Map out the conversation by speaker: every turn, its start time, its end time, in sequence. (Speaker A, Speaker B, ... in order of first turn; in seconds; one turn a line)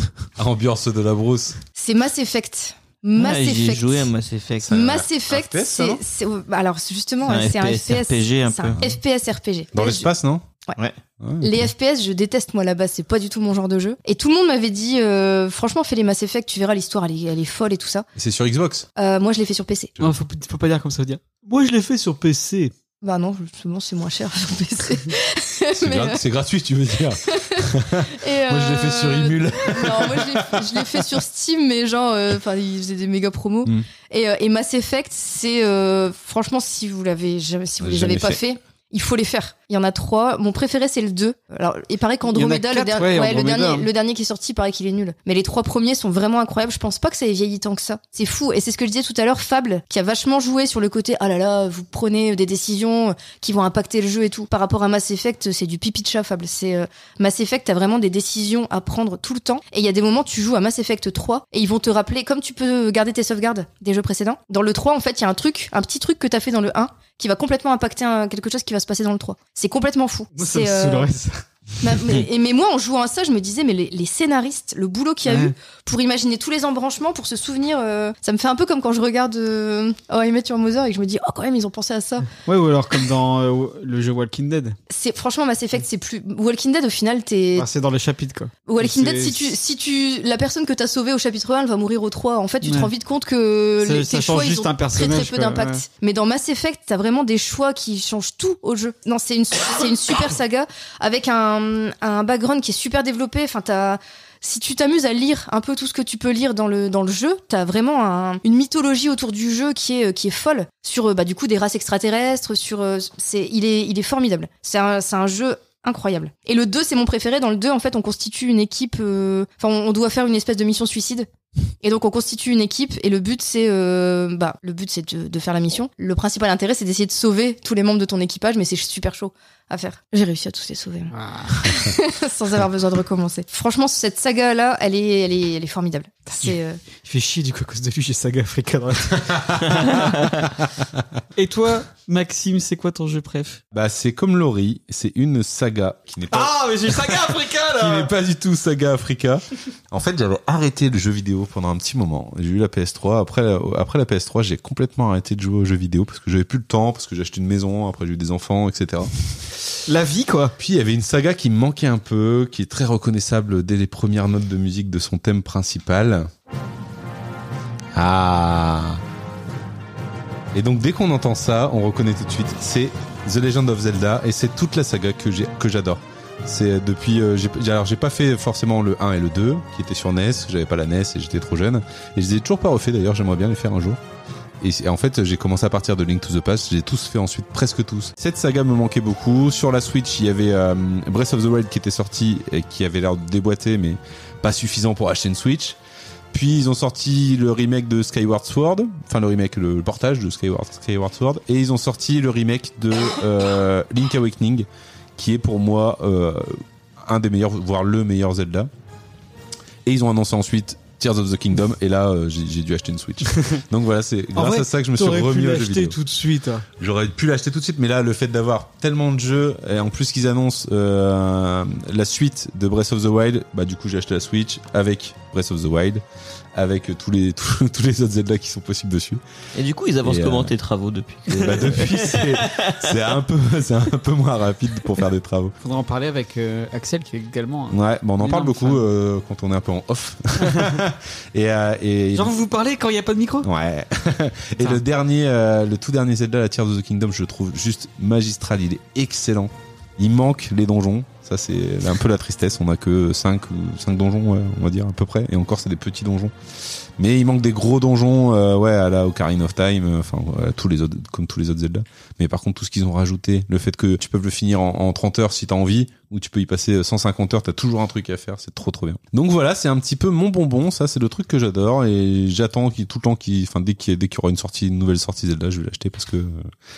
Speaker A: 0.3-1.6
Speaker B: 1.8-4.1
Speaker C: 3.1-4.7
Speaker A: 4.6-6.0
Speaker B: 4.7-10.1
Speaker C: 7.2-8.8
Speaker A: 9.7-10.4
Speaker A: 11.2-11.7
Speaker B: 11.4-18.1
Speaker A: 18.1-18.9
Speaker B: 19.0-19.9
Speaker D: 20.0-22.7
Speaker B: 23.0-26.2
Speaker A: 25.7-31.2
Speaker B: 27.3-71.1
Speaker A: 37.8-38.4
Speaker D: 42.3-43.9
Speaker D: 70.3-71.4
Speaker B: 71.8-82.3
Speaker D: 75.2-75.5
Speaker D: 82.3-84.8
Speaker B: 84.9-87.7
Speaker D: 87.5-89.5
Speaker B: 88.7-121.3
Speaker D: 92.6-92.9
Speaker D: 93.8-95.8
Speaker B: 121.8-136.8
Speaker D: 131.1-131.7
Speaker D: 136.4-140.4
Speaker A: 139.3-139.6
Speaker D: 141.3-143.6
Speaker A: 143.7-159.1
Speaker D: 146.3-148.1
Speaker D: 159.9-160.5
Speaker A: 160.6-166.3
Speaker A: 167.9-169.0
Speaker A: 170.5-184.0
Speaker A: 184.6-195.8
Speaker A: 196.3-208.7
Speaker A: 209.8-216.0
Speaker D: 214.3-216.6
Speaker A: 216.8-226.0
Speaker A: 226.5-229.2
Speaker C: 229.5-232.9
Speaker A: 230.0-230.5
Speaker A: 231.3-235.5
Speaker D: 235.6-238.8
Speaker A: 237.7-242.3
Speaker D: 240.4-240.7
Speaker D: 242.1-243.5
Speaker A: 243.4-256.3
Speaker A: 257.0-276.4